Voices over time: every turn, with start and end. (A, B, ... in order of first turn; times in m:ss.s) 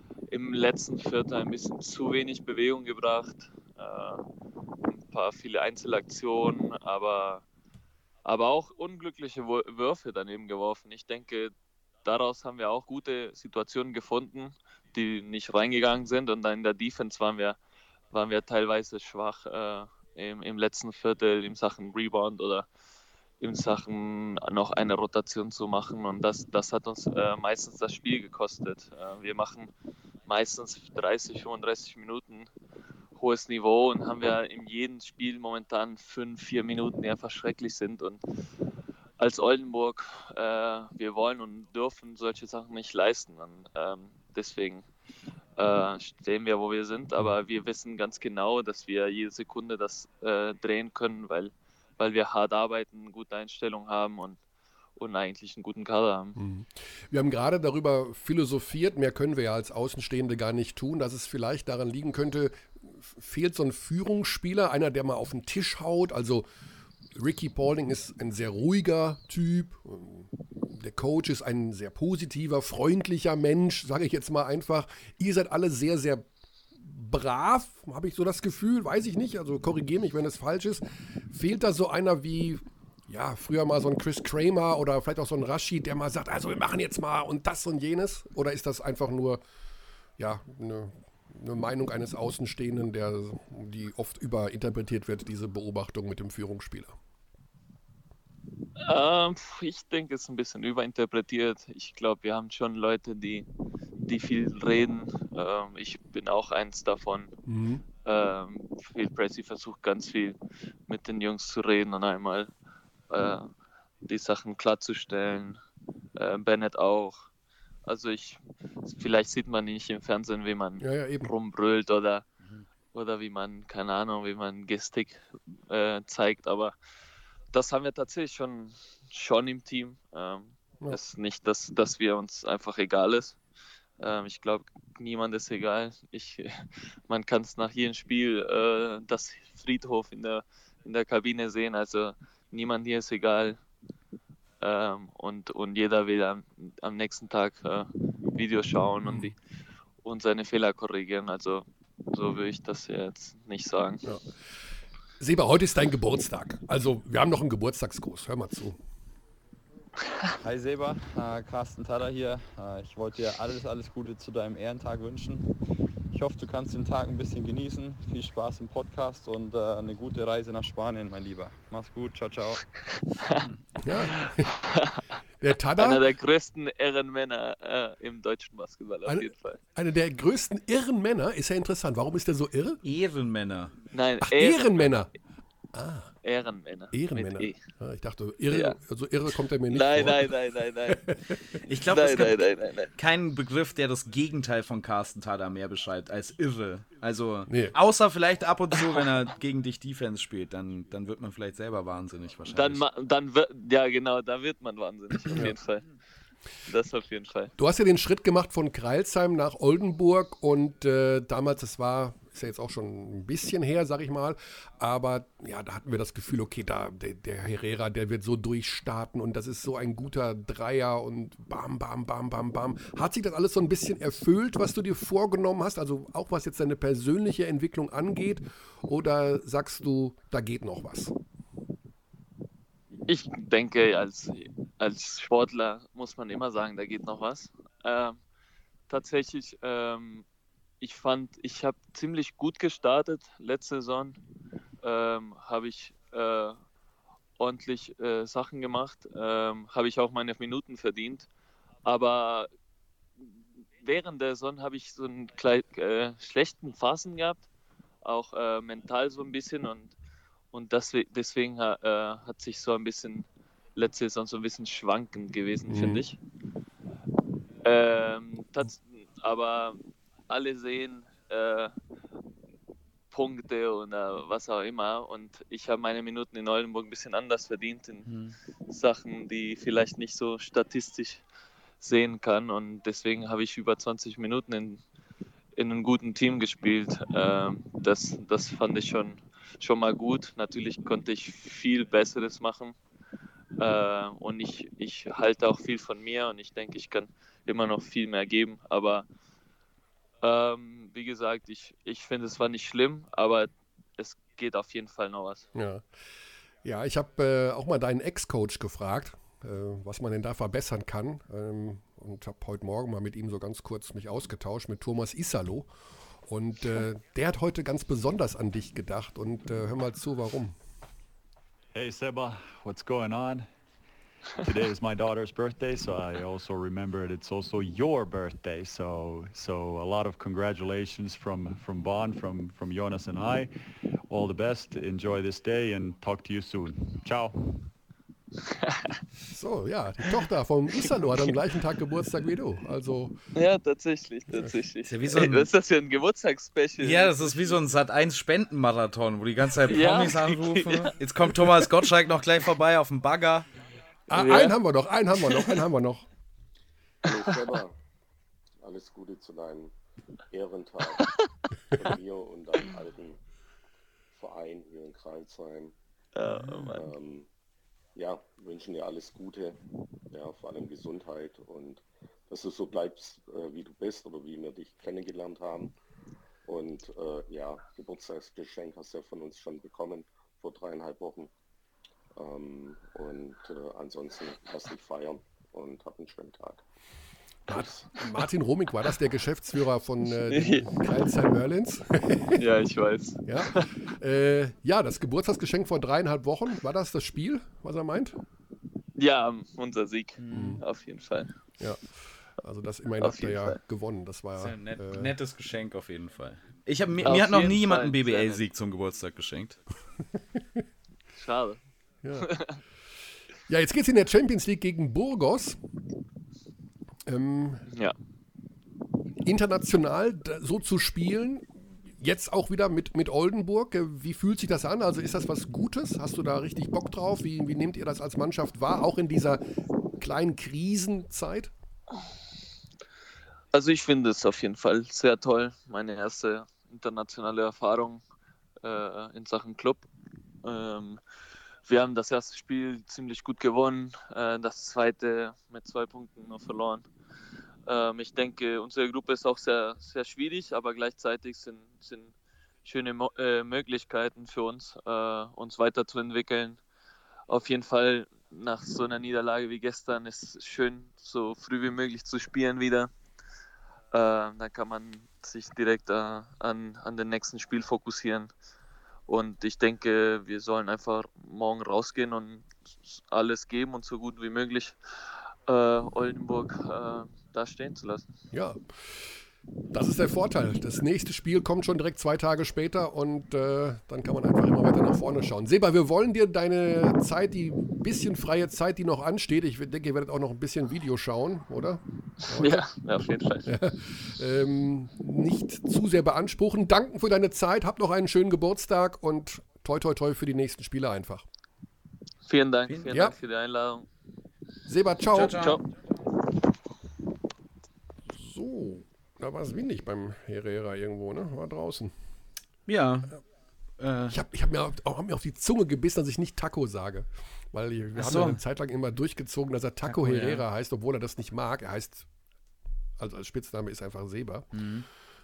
0:00.3-0:04.3 A
0:04.8-0:07.4 A
0:08.2-0:17.6 A
0:18.1-0:22.7 A
0:23.4-0:29.7 A
0:30.2-0:32.5 A
0:33.1-0:38.2 A
0:39.2-0:44.9 A
0:45.6-0:54.4 A
0:55.0-0:56.4 A
0:56.4-1:06.4 B
1:07.1-1:16.3 B
1:16.8-1:29.4 B
1:30.2-1:37.0 B
1:38.8-1:43.5 A
1:44.0-1:47.3 A
1:47.4-1:47.8 B
1:48.0-1:52.5 A
1:53.1-1:53.5 A
1:54.0-1:55.6 A
1:56.2-1:57.3 A
1:57.8-2:02.2 A
2:00.8-2:01.3 B
2:02.9-2:06.8 A
2:07.5-2:13.4 A
2:14.0-2:23.6 A
2:24.6-2:29.4 A
2:29.0-2:29.3 B
2:30.0-2:34.0 A
2:35.2-2:38.8 B
2:40.4-2:45.5 C
2:46.1-2:52.6 C
2:53.8-2:54.5 B
2:54.3-2:55.0 A
2:55.4-2:56.0 B
2:55.8-2:59.6 A
2:59.0-3:02.8 B
3:02.8-3:03.8 D
3:03.9-3:05.0 A
3:04.2-3:05.1 B
3:05.7-3:06.1 B
3:06.2-3:07.6 A
3:06.9-3:10.3 B
3:08.5-3:08.8 A
3:09.7-3:11.1 A
3:10.9-3:11.1 B
3:11.6-3:22.8 D
3:11.8-3:12.9 A
3:17.5-3:17.7 B
3:22.4-3:25.8 A
3:25.3-3:25.6 B
3:26.7-3:27.5 A
3:27.6-3:51.1 B
3:53.1-3:58.2 A
3:58.9-4:00.2 A
4:00.8-4:04.2 A
4:04.8-4:06.6 A
4:07.4-4:11.3 A
4:11.8-4:12.5 A
4:13.8-4:17.4 A
4:18.0-4:19.9 A
4:20.5-4:26.2 A
4:25.7-4:26.0 B
4:27.6-4:31.7 A
4:33.1-4:38.1 A
4:38.7-4:41.2 A
4:41.8-4:44.8 A
4:45.6-4:52.8 A
4:53.6-4:59.0 A
5:00.2-5:05.4 A
5:05.5-5:05.8 B
5:06.6-5:15.7 B
5:16.2-5:20.6 B
5:21.7-5:23.5 E
5:24.4-5:33.5 E
5:34.1-5:37.5 E
5:38.4-5:39.0 A
5:39.3-5:43.2 B
5:43.3-5:47.7 A
5:44.8-5:45.5 D
5:46.8-5:53.4 D
5:49.6-5:51.7 A
5:54.1-5:56.0 B
5:54.1-5:54.6 A
5:55.2-5:55.6 A
5:57.0-5:57.7 F
5:58.6-5:59.7 F
6:00.3-6:01.0 F
6:01.7-6:03.2 F
6:04.1-6:05.7 F
6:06.2-6:06.9 A
6:06.4-6:07.3 F
6:07.9-6:09.6 F
6:10.1-6:15.7 F
6:16.4-6:21.3 F
6:22.2-6:26.6 F
6:27.5-6:32.4 B
6:30.2-6:31.1 A
6:32.3-6:33.8 A
6:33.2-6:38.2 B
6:39.0-6:41.3 A
6:40.2-6:40.6 D
6:40.3-6:40.6 B
6:41.6-6:41.8 B
6:42.4-6:45.1 B
6:43.0-6:43.6 A
6:44.4-6:49.6 D
6:47.0-6:48.4 A
6:51.1-6:51.6 A
6:52.0-6:52.3 B
6:52.2-6:52.6 A
6:53.5-6:55.6 B
6:57.0-6:57.6 B
6:57.7-6:58.0 A
6:59.2-7:09.4 B
7:10.0-7:11.5 B
7:13.5-7:18.0 A
7:18.6-7:19.8 A
7:20.4-7:21.0 A
7:21.6-7:26.8 A
7:27.6-7:32.1 A
7:32.6-7:36.6 A
7:37.3-7:42.9 A
7:43.9-7:48.3 A
7:49.1-7:54.8 A
7:55.5-7:58.1 A
7:58.3-7:59.2 B
7:59.7-8:12.7 B
8:12.2-8:13.5 A
8:13.4-8:21.2 B
8:22.2-8:23.9 A
8:22.9-8:23.2 B
8:24.6-8:25.4 B
8:25.1-8:25.6 D
8:25.4-8:25.6 A
8:28.1-8:31.9 B
8:32.7-8:33.2 D
8:33.8-8:34.2 D
8:34.1-8:42.0 B
8:38.0-8:38.4 D
8:39.9-8:40.4 D
8:43.0-8:44.5 B
8:44.5-8:44.8 D